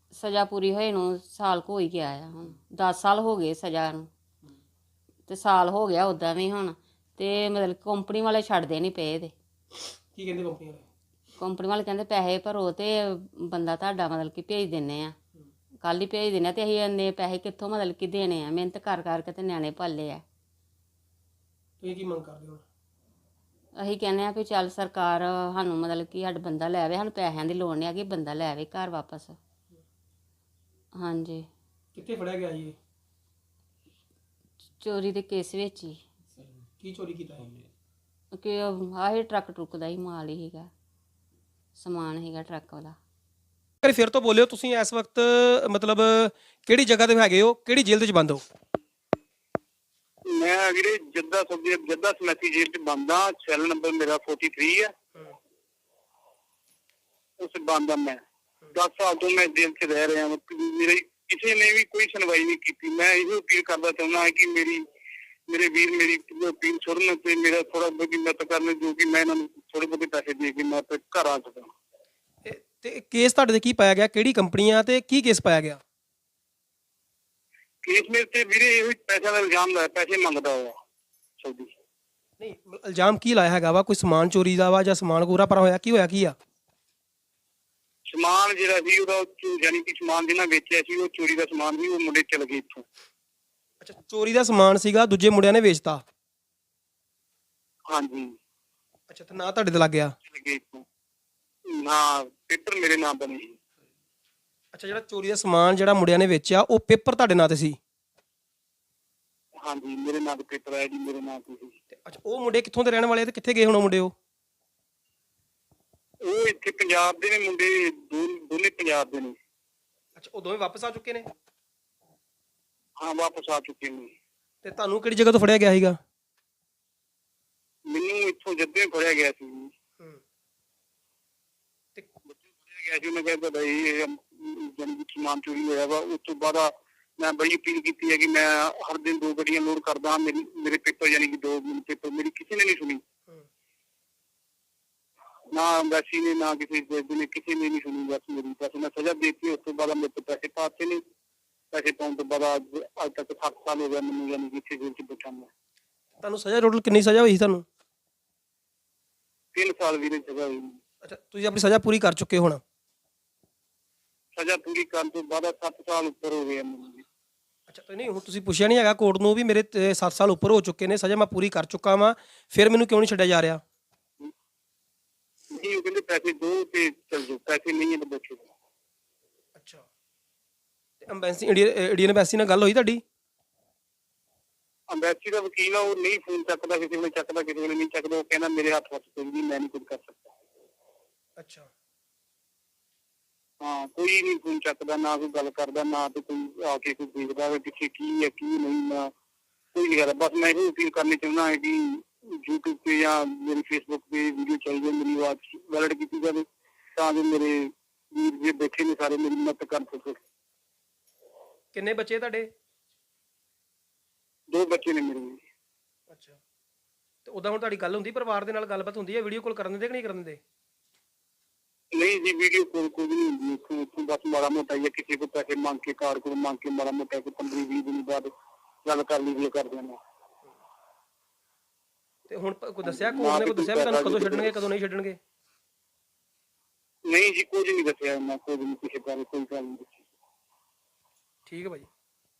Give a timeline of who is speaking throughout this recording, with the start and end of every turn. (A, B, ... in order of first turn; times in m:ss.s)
0:00.1-0:04.1 A
0:05.3-0:09.3 A
0:10.2-0:10.8 B
0:11.4-0:15.1 A
0:15.8-0:20.2 A
0:21.8-0:22.6 B
0:23.8-0:29.4 A
0:30.9-0:31.4 A
0:31.9-0:32.7 B
0:34.8-0:36.0 A
0:36.8-0:37.4 B
0:38.3-0:40.7 A
0:41.7-0:43.0 A
0:43.8-0:48.4 B
0:50.3-0:54.9 C
0:57.4-0:58.2 C
0:58.7-1:04.8 C
1:05.5-1:11.7 C
1:12.4-1:15.8 B
1:17.8-1:20.8 C
1:21.4-1:21.7 C
1:22.4-1:26.4 B
1:28.1-1:32.8 C
1:33.8-1:36.0 B
1:37.9-1:38.4 C
1:39.1-1:40.1 B
1:40.3-1:40.8 C
1:41.7-1:43.6 C
1:44.7-1:47.8 B
1:49.6-1:51.8 C
1:52.0-1:54.1 B
1:56.2-1:59.4 C
2:00.2-2:01.2 B
2:03.0-2:04.1 C
2:04.6-2:06.0 B
2:07.9-2:09.7 C
2:12.4-2:23.0 C
2:25.5-2:31.0 C
2:31.7-2:35.5 C
2:36.2-2:37.6 B
2:39.5-2:40.8 C
2:41.0-2:42.6 B
2:44.4-2:47.0 C
2:47.7-2:53.6 B
2:55.5-2:58.5 C
2:59.6-2:59.8 B
3:01.1-3:03.0 B
3:04.9-3:10.3 C
3:11.4-3:11.7 B
3:13.6-3:19.1 C
3:19.7-3:30.2 C
3:31.7-3:32.5 B
3:34.5-3:35.4 C
3:36.1-3:36.4 B
3:37.2-3:40.4 B
3:41.9-3:48.3 C
3:48.8-3:50.0 C
3:52.3-3:55.2 B
3:52.8-3:54.6 C
3:57.1-4:00.0 C
4:01.4-4:01.9 B